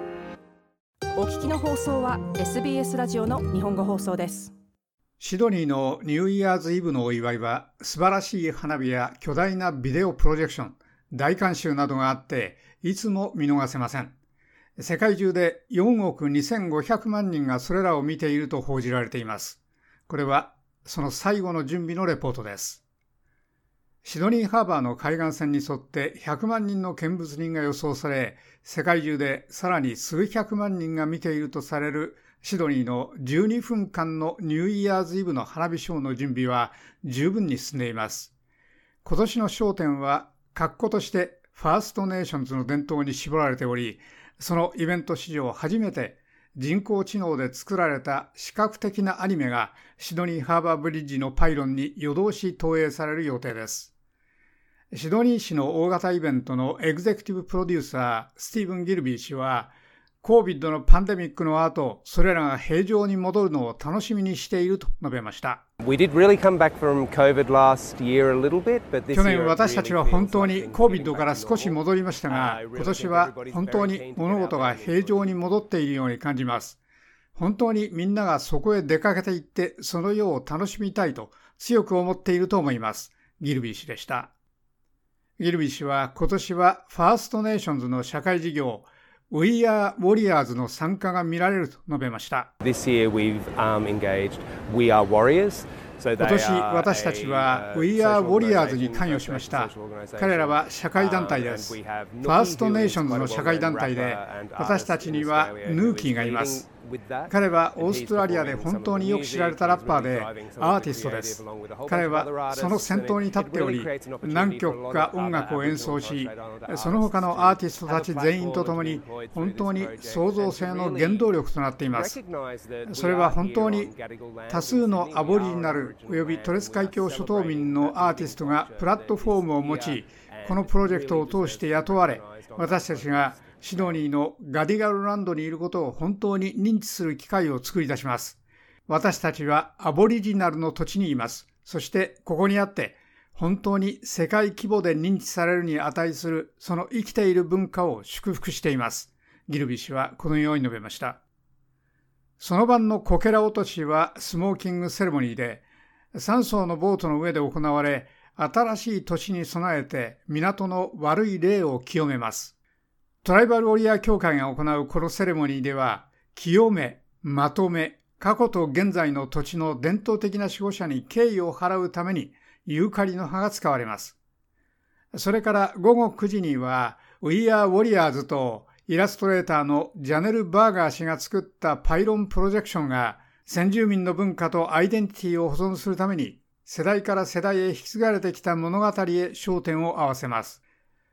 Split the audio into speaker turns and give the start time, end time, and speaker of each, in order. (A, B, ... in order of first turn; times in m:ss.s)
0:01.2-0:04.5 A
0:05.2-0:14.1 B
0:14.8-0:22.8 B
0:24.0-0:38.3 B
0:39.0-0:53.9 B
0:54.9-1:05.6 B
1:05.8-1:15.4 C
1:09.1-1:16.8 B
1:17.4-1:24.3 B
1:25.4-1:32.5 B
1:32.6-2:01.3 C
1:36.2-1:46.6 B
1:47.3-2:02.2 B
2:01.8-2:14.0 C
2:02.8-2:03.9 B
2:04.5-2:31.2 B
2:32.4-2:42.5 B
2:43.2-2:54.2 B
2:55.1-3:10.6 B